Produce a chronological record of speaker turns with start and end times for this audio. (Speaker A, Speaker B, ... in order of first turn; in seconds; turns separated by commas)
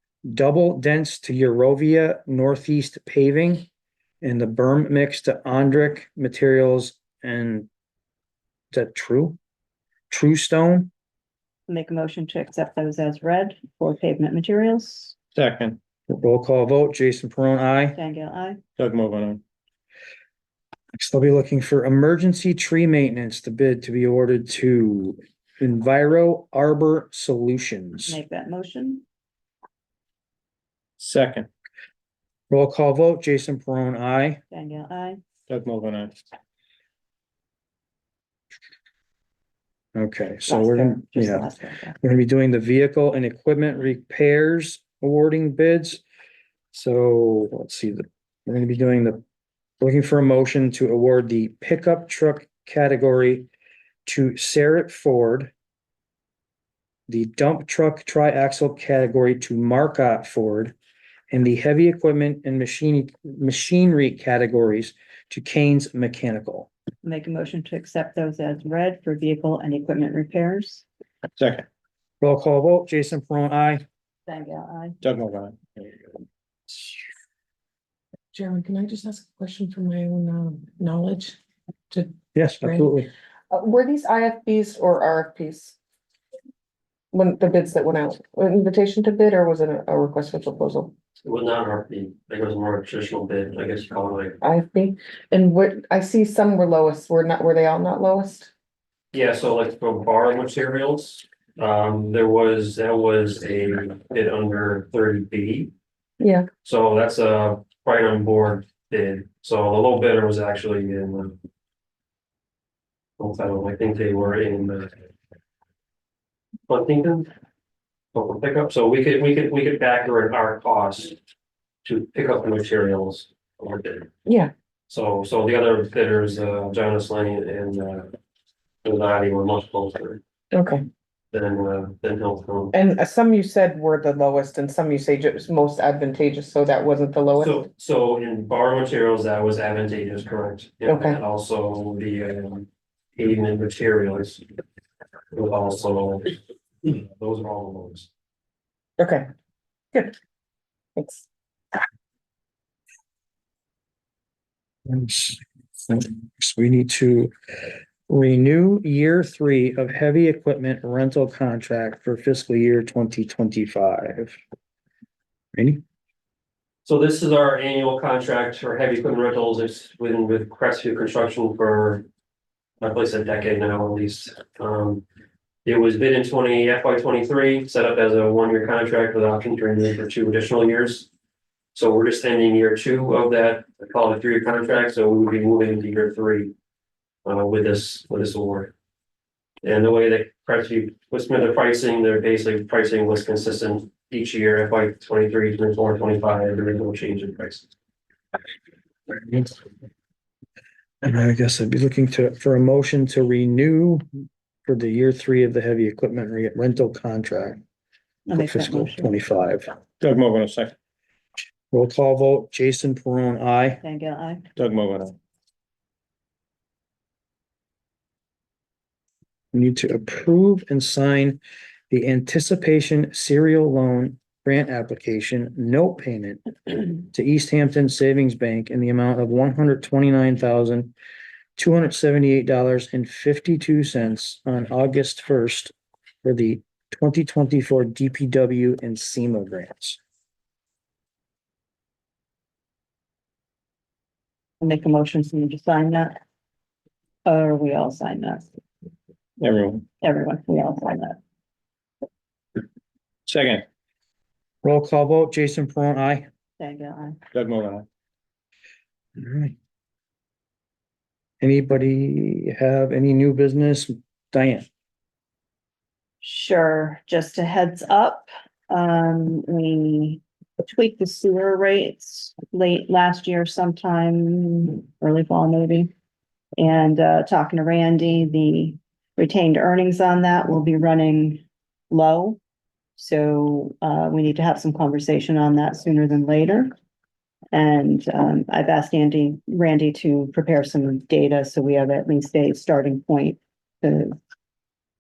Speaker A: 0.2-3.7, Speaker A: 4.2-7.7, Speaker A: 8.7-9.4, Speaker A: 10.1-10.9, Speaker B: 11.7-15.2, Speaker C: 15.3-15.8, Speaker A: 16.1-18.0, Speaker B: 17.9-18.6, Speaker C: 18.8-19.4, Speaker A: 21.0-28.2, Speaker B: 28.1-29.0, Speaker C: 31.0-31.5, Speaker A: 32.5-34.4, Speaker B: 34.5-35.2, Speaker C: 35.5-36.1, Speaker A: 40.0-41.5, Speaker B: 40.5-42.0, Speaker A: 42.0-46.0, Speaker A: 46.7-49.2, Speaker A: 49.8-53.5, Speaker A: 54.1-55.5, Speaker A: 57.1-60.8, Speaker A: 61.3-66.7, Speaker B: 67.0-70.9, Speaker C: 71.4-71.7, Speaker A: 72.2-73.8, Speaker B: 74.3-75.0, Speaker C: 75.0-75.9, Speaker D: 78.3-81.4, Speaker D: 81.9-82.9, Speaker A: 82.3-83.1, Speaker D: 83.5-85.8, Speaker D: 87.1-90.9, Speaker E: 91.2-94.4, Speaker D: 94.4-98.5, Speaker E: 99.1-105.7, Speaker D: 106.2-106.5, Speaker E: 106.6-111.4, Speaker E: 113.2-115.0, Speaker E: 116.7-117.3, Speaker E: 118.1-121.2, Speaker E: 121.8-124.1, Speaker D: 124.3-124.5, Speaker E: 124.9-128.2, Speaker E: 128.8-130.2, Speaker D: 130.5-130.8, Speaker E: 131.3-132.7, Speaker D: 132.7-137.6, Speaker E: 137.4-144.4, Speaker D: 140.9-141.2, Speaker E: 145.3-148.1, Speaker D: 149.0-149.3, Speaker D: 151.0-151.2, Speaker A: 154.9-157.3, Speaker A: 158.1-164.4, Speaker A: 165.6-165.8, Speaker E: 166.8-172.1, Speaker E: 172.8-175.0, Speaker E: 175.7-181.1, Speaker E: 181.8-186.5, Speaker E: 187.2-188.7, Speaker E: 189.6-197.7, Speaker A: 201.0-204.1, Speaker A: 204.7-207.6, Speaker B: 208.3-209.1, Speaker A: 208.4-209.7, Speaker C: 210.0-210.7, Speaker A: 211.7-213.8, Speaker B: 213.8-214.5, Speaker C: 214.6-215.2, Speaker A: 219.5-221.4, Speaker A: 221.9-226.4, Speaker A: 227.1-230.9, Speaker A: 231.6-235.7, Speaker A: 236.2-240.0, Speaker B: 244.6-246.2, Speaker B: 247.2-248.5, Speaker C: 249.4-249.9, Speaker B: 250.0-251.2, Speaker C: 253.3-253.7, Speaker A: 254.6-256.3, Speaker B: 256.6-257.2, Speaker C: 257.3-257.9, Speaker A: 259.2-259.6, Speaker A: 261.4-264.7, Speaker B: 266.2-275.9, Speaker B: 276.6-282.4, Speaker B: 283.0-286.7, Speaker B: 287.5-294.1